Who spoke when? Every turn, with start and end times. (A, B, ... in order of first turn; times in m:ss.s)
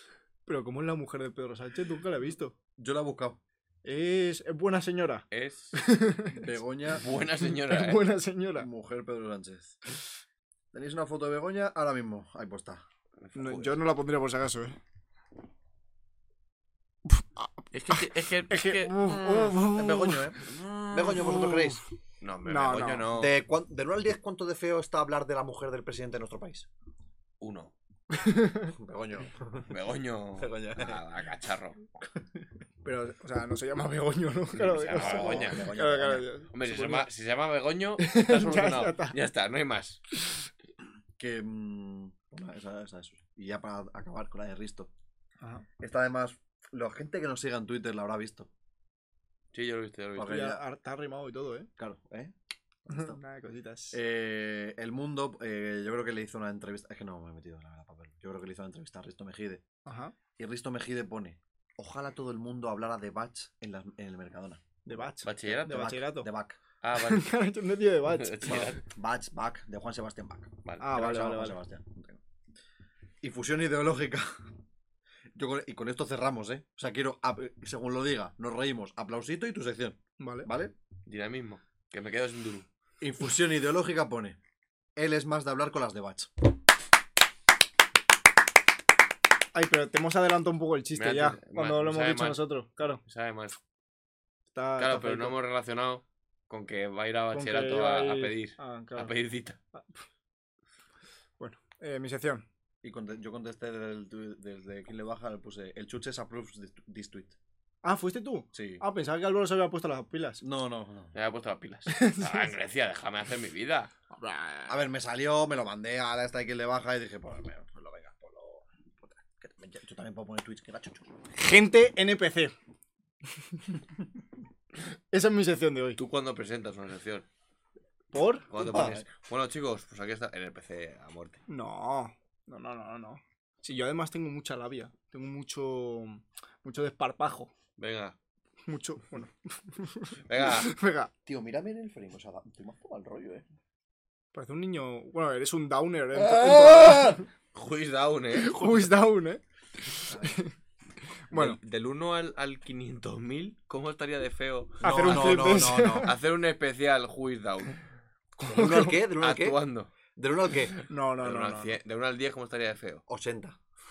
0:00.4-0:02.5 A
0:02.8-0:03.4 B
0:03.8-0:06.5 A
0:05.3-0:05.8 C
0:06.3-0:07.0 B
0:07.0-0:08.0 C
0:07.4-0:08.7 A
0:08.6-0:09.8 B
0:10.7-0:12.8 B
0:13.2-0:13.8 C
0:13.3-0:14.8 A
0:17.1-0:20.4 A
0:17.7-0:19.6 C
0:19.7-0:21.8 B
0:20.4-0:21.5 C
0:21.1-0:21.8 A
0:22.2-0:23.3 C
0:22.4-0:23.1 A
0:23.1-0:26.7 B
0:27.4-0:27.7 C
0:28.1-0:28.7 A
0:28.7-0:29.7 B
0:29.7-0:31.8 C
0:30.4-0:31.0 B
0:32.8-0:37.1 A
0:34.6-0:35.7 C
0:34.9-0:36.3 B
0:36.5-0:40.0 C
0:38.0-0:39.2 A
0:41.2-0:44.9 B
0:45.4-0:45.6 A
0:45.8-0:48.5 B
0:49.5-0:50.4 C
0:50.2-0:50.6 B
0:50.2-0:51.7 A
0:51.8-0:52.3 B
0:52.8-0:53.2 B
0:52.9-0:54.0 A
0:53.9-0:59.6 B
0:59.8-1:00.1 A
1:00.4-1:04.9 B
1:04.9-1:06.3 A
1:05.2-1:05.9 C
1:05.4-1:06.6 B
1:06.8-1:07.3 C
1:07.0-1:08.6 A
1:08.1-1:08.8 C
1:08.4-1:12.2 B
1:10.6-1:10.9 C
1:10.8-1:11.6 A
1:13.2-1:14.5 B
1:15.4-1:20.7 B
1:20.2-1:20.5 A
1:21.1-1:22.7 C
1:23.0-1:24.4 B
1:25.0-1:26.3 B
1:29.5-1:33.0 A
1:31.0-1:32.4 C
1:33.0-1:33.6 C
1:34.5-1:35.3 A
1:34.8-1:39.6 C
1:37.3-1:39.1 A
1:39.7-1:40.0 A
1:41.4-1:42.4 A
1:42.8-1:47.4 B
1:47.8-1:50.4 A
1:48.5-1:48.8 B
1:50.4-1:51.1 B
1:51.1-1:53.9 C
1:51.9-1:52.5 A
1:54.1-1:54.8 A
1:54.7-2:01.1 B
2:01.3-2:02.5 A
2:05.1-2:06.0 A
2:06.0-2:07.2 C
2:08.1-2:08.5 A
2:08.5-2:11.4 C
2:08.6-2:09.1 B
2:11.5-2:17.5 A
2:17.8-2:18.2 C
2:18.7-2:21.1 A
2:20.2-2:20.7 C
2:21.2-2:23.4 B
2:24.3-2:27.2 A
2:26.1-2:27.2 B
2:27.5-2:28.7 C
2:28.3-2:30.5 A
2:30.1-2:30.4 B
2:31.3-2:31.6 A
2:31.3-2:37.8 C
2:34.8-2:36.2 B
2:34.8-2:36.1 A
2:38.4-2:39.0 A
2:38.5-2:39.6 B
2:38.6-2:39.9 C
2:40.1-2:40.8 B
2:40.9-2:41.8 A
2:41.2-2:43.0 C
2:43.1-2:43.6 B